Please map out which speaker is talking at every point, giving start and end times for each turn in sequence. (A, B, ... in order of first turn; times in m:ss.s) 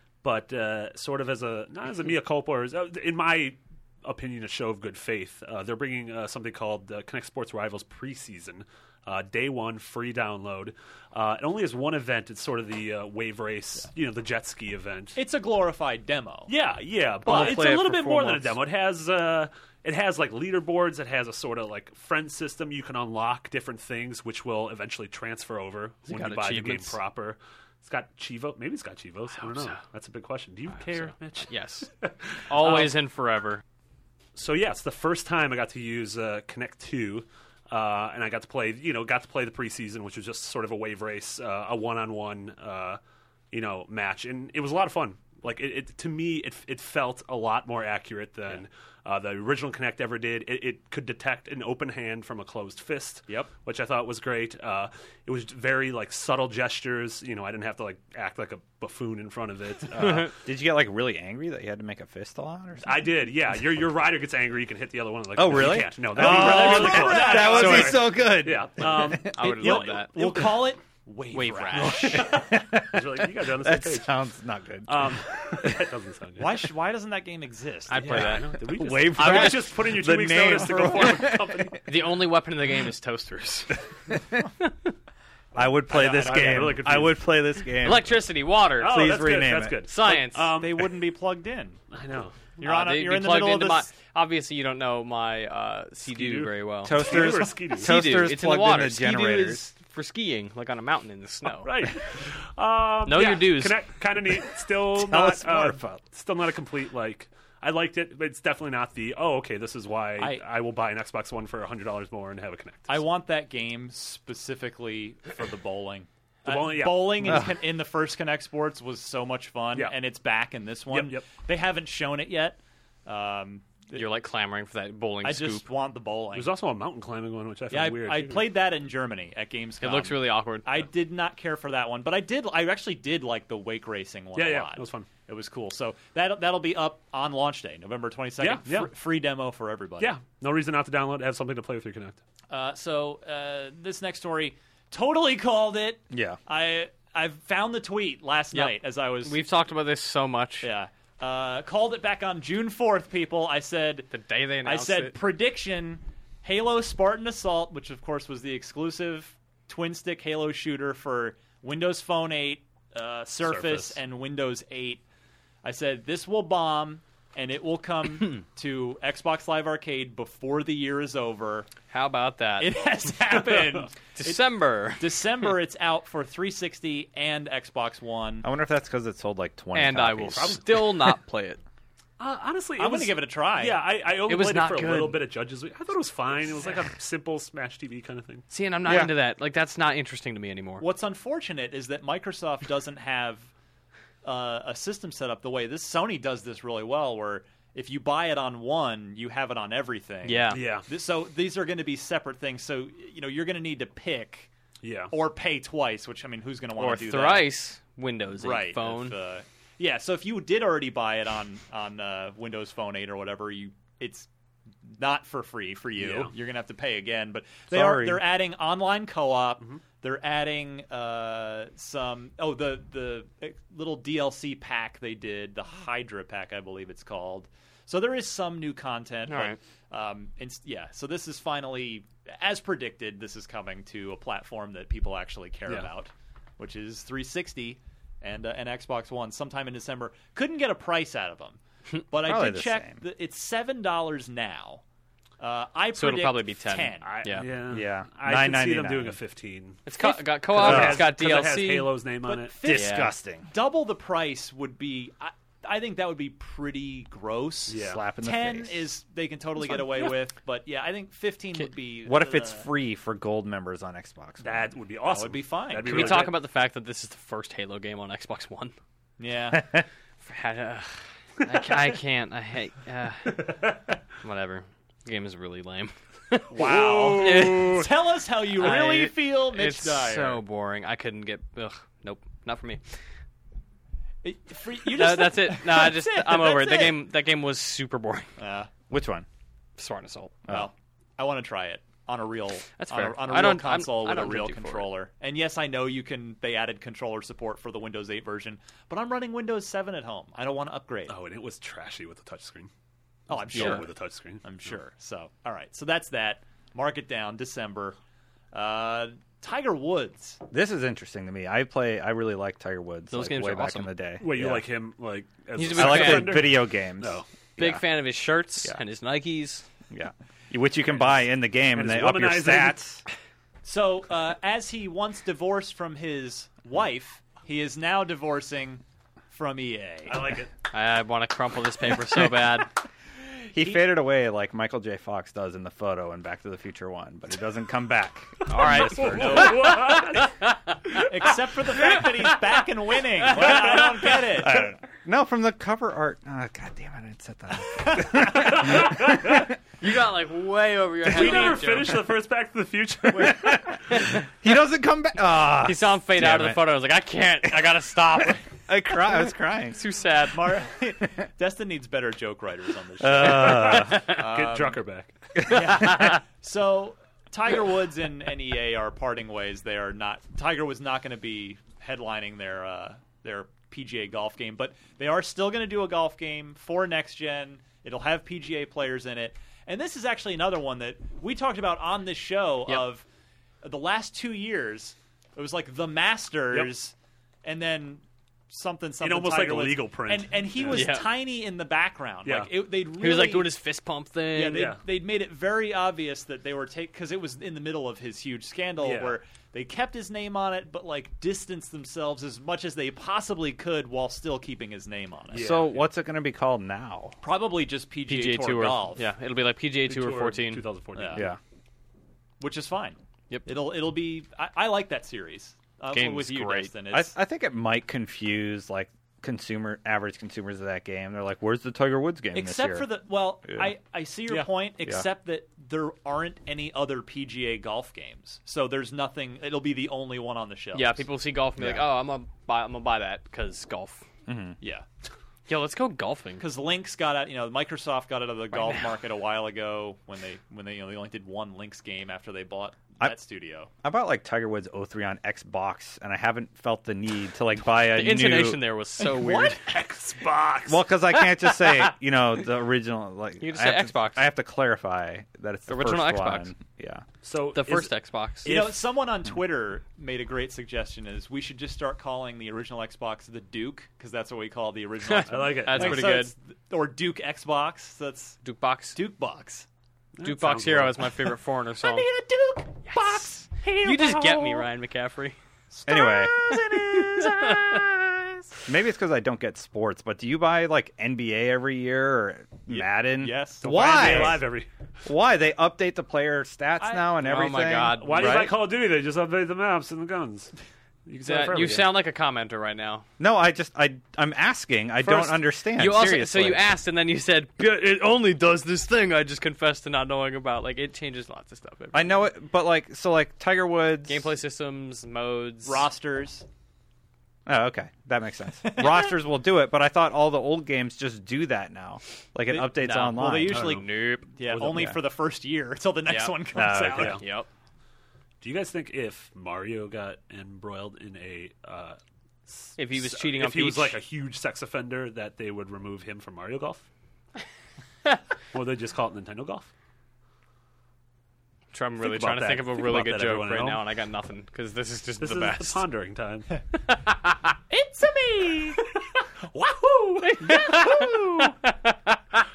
0:00.2-0:15.2 A
0:15.2-0:16.5 B
0:16.5-0:32.9 A
0:17.2-0:18.6 C
0:17.3-0:17.7 B
0:26.1-0:27.0 D
0:29.4-0:29.8 D
0:30.9-0:31.9 D
0:32.5-0:33.6 D
0:34.4-0:43.0 A
0:43.5-1:00.4 A
1:00.0-1:03.1 C
1:02.8-1:10.7 A
1:05.4-1:09.4 C
1:06.2-1:08.0 B
1:06.9-1:08.0 D
1:09.3-1:10.2 D
1:09.4-1:12.3 B
1:11.3-1:12.3 D
1:11.7-1:15.9 C
1:11.8-1:14.2 A
1:14.9-1:16.7 A
1:16.4-1:18.5 B
1:17.9-1:18.5 D
1:18.0-1:21.9 A
1:18.7-1:21.8 C
1:19.2-1:19.5 D
1:21.8-1:23.8 D
1:25.6-1:28.2 C
1:25.9-1:26.9 B
1:26.1-1:27.2 A
1:27.8-1:29.0 D
1:28.8-1:31.1 A
1:28.8-1:29.8 C
1:29.9-1:30.5 D
1:30.5-1:31.8 B
1:31.9-1:32.4 A
1:32.6-1:33.9 B
1:32.6-1:41.7 D
1:36.0-1:38.0 A
1:36.8-1:39.7 C
1:41.6-1:53.0 A
1:43.0-1:43.8 D
1:44.9-1:46.0 C
1:52.9-2:04.0 B
1:56.5-1:57.5 A
1:57.2-1:57.5 C
1:59.7-2:00.0 A
2:00.9-2:01.3 A
2:03.9-2:05.7 D
2:05.2-2:06.5 B
2:06.3-2:08.6 A
2:07.7-2:20.2 B
2:09.8-2:10.7 D
2:14.4-2:15.1 A
2:18.4-2:18.9 A
2:20.0-2:22.2 A
2:22.5-2:29.4 B
2:26.1-2:26.4 C
2:28.5-2:30.7 D
2:30.6-2:34.1 B
2:34.1-2:35.2 D
2:34.6-2:45.0 B
2:43.4-2:44.0 A
2:45.6-2:51.7 B
2:51.9-2:52.7 D
2:52.6-2:58.5 B
2:53.5-2:53.8 A
2:54.2-2:55.0 D
2:58.4-3:00.6 C
2:59.7-3:01.6 D
3:00.4-3:00.8 A
3:02.2-3:08.5 A
3:02.8-3:03.8 B
3:04.3-3:05.2 D
3:08.5-3:10.8 D
3:08.8-3:09.1 C
3:10.8-3:13.5 B
3:14.2-3:24.5 B
3:20.2-3:20.6 D
3:20.5-3:20.9 A
3:24.8-3:25.1 A
3:25.1-3:27.5 B
3:26.8-3:29.2 D
3:28.4-3:34.3 B
3:34.8-4:01.6 B
3:36.0-3:36.3 A
3:37.7-3:38.3 C
3:49.3-3:49.6 D
4:02.1-4:04.8 B
4:02.2-4:03.0 C
4:05.4-4:07.1 B
4:05.9-4:07.5 D
4:07.0-4:12.6 A
4:07.7-4:09.2 C
4:09.9-4:11.9 D
4:10.6-4:11.1 C
4:12.2-4:22.7 B
4:12.6-4:13.5 C
4:12.7-4:13.1 D
4:17.7-4:18.0 A
4:17.7-4:18.9 C
4:22.0-4:24.7 C
4:24.4-4:26.4 A
4:25.1-4:26.2 B
4:25.8-4:28.7 D
4:29.2-4:29.8 B
4:29.5-4:29.8 C
4:30.2-4:33.4 D
4:33.3-4:33.9 A
4:34.2-4:36.6 D
4:36.5-4:37.8 A
4:36.5-4:40.4 B
4:37.1-4:37.9 D
4:38.6-4:42.8 D
4:44.2-4:47.0 B
4:44.9-4:48.3 D
4:48.4-4:48.7 B
4:48.9-4:49.3 C
4:49.8-4:50.4 D
4:50.5-5:01.2 B
4:52.8-4:54.9 D
5:01.1-5:02.7 A
5:03.3-5:08.0 B
5:03.3-5:04.8 A
5:03.5-5:03.8 D
5:08.5-5:10.4 B
5:10.5-5:14.7 C
5:13.1-5:13.9 D
5:14.2-5:17.2 A
5:15.6-5:16.5 D
5:15.7-5:17.8 C
5:17.6-5:19.6 D
5:19.9-5:23.0 C
5:21.7-5:22.8 A
5:23.6-5:30.4 B
5:30.1-5:30.5 A
5:30.7-5:32.7 D
5:33.5-5:39.8 C
5:38.5-5:41.1 D
5:38.5-5:40.4 A
5:41.1-5:44.7 B
5:43.4-5:44.1 D
5:44.4-5:49.4 C
5:48.2-5:49.5 A
5:49.8-5:51.9 D
5:51.0-5:53.7 A
5:53.1-5:56.6 C
5:55.6-5:58.4 D
5:58.7-5:59.8 C
5:59.7-6:00.6 D
6:00.2-6:04.8 B
6:03.0-6:04.2 C
6:03.1-6:05.1 A
6:05.4-6:06.1 C
6:05.4-6:23.0 B
6:23.6-6:26.9 B
6:27.4-6:33.5 B
6:29.0-6:30.9 A
6:30.7-6:31.1 D
6:32.2-6:32.5 A
6:32.9-6:34.7 D
6:34.3-6:45.6 B
6:34.5-6:34.8 A
6:38.8-6:39.2 A
6:45.3-6:45.9 A
6:45.4-6:47.2 C
6:47.2-6:49.1 B
6:48.1-6:50.6 D
6:49.9-6:51.3 A
6:51.0-6:51.3 B
6:51.1-6:51.4 C
6:52.4-6:57.2 B
6:55.9-6:56.7 D
6:56.9-7:02.9 C
7:02.3-7:11.1 B
7:03.4-7:03.8 C
7:10.7-7:14.0 D
7:11.6-7:11.9 C
7:14.3-7:14.6 C
7:14.6-7:14.9 B
7:15.5-7:16.5 D
7:16.4-7:23.7 B
7:23.8-7:28.6 C
7:27.7-7:29.6 D
7:29.0-7:30.7 B
7:30.7-7:37.0 C
7:31.2-7:31.9 D
7:33.4-7:34.3 D
7:35.7-7:36.5 D
7:37.2-7:38.8 A
7:37.5-7:38.5 D
7:38.4-7:48.4 B
7:45.1-7:46.3 D
7:45.3-7:46.2 A
7:48.4-7:49.0 D
7:49.0-7:49.7 B
7:50.2-7:51.1 A
7:50.2-7:52.1 D
7:51.8-7:54.7 B
7:53.8-7:55.4 D
7:55.7-7:58.5 B
7:55.9-7:56.3 C
7:57.1-7:57.6 D
7:58.7-8:04.5 C
8:02.7-8:04.4 B
8:03.6-8:04.7 A
8:05.0-8:08.5 C
8:06.8-8:07.1 B
8:07.2-8:08.5 D
8:08.0-8:10.5 A
8:11.1-8:11.9 A
8:11.2-8:13.0 D
8:13.2-8:16.6 C
8:15.0-8:22.2 D
8:21.9-8:24.3 C
8:24.1-8:25.9 D
8:25.6-8:26.5 B
8:27.5-8:33.8 C
8:28.7-8:29.1 B
8:32.5-8:37.2 B
8:32.6-8:34.3 D
8:33.5-8:33.8 A
8:34.5-8:35.0 A
8:34.6-8:35.0 C
8:36.1-8:37.5 D
8:36.5-8:37.2 C
8:36.9-8:37.2 A
8:38.4-8:46.9 A
8:42.8-8:44.0 D
8:48.5-8:49.7 A
8:51.7-8:55.8 D
8:52.0-8:53.8 A
8:55.2-8:56.6 A
8:57.7-8:58.8 B
8:59.5-9:00.6 A
9:00.2-9:02.4 D
9:00.4-9:01.6 B